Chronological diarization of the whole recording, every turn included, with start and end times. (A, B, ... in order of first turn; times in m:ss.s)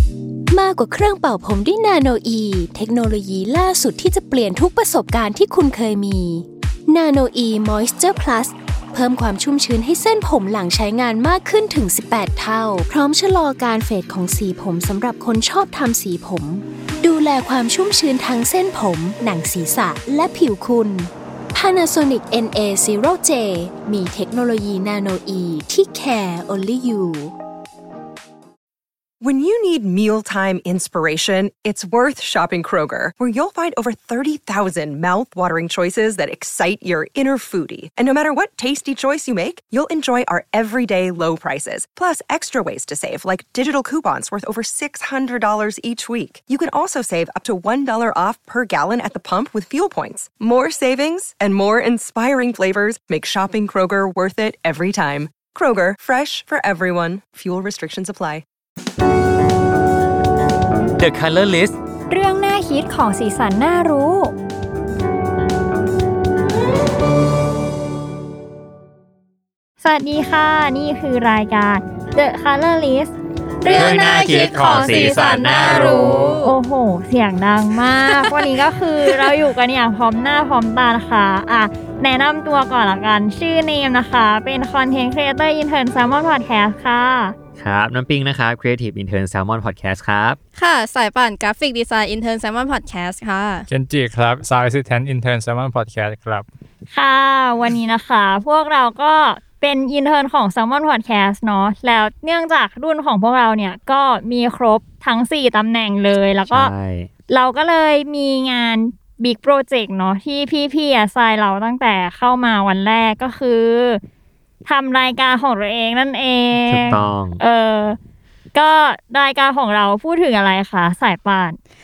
0:00.5-0:27.3 A
0:29.2-0:58.4 B
1:01.0-1:01.8 C
1:02.1-1:04.3 D
1:09.8-1:27.4 D
1:13.6-1:16.6 E
1:13.7-1:15.8 C
1:14.4-1:16.3 F
1:19.0-1:19.3 E
1:27.6-1:30.4 C
1:30.6-1:33.7 E
1:33.7-1:36.4 F
1:36.9-1:46.7 D
1:46.5-1:47.1 C
1:47.3-1:54.0 D
1:54.6-1:58.0 D
1:56.7-1:57.4 C
1:58.5-2:01.6 D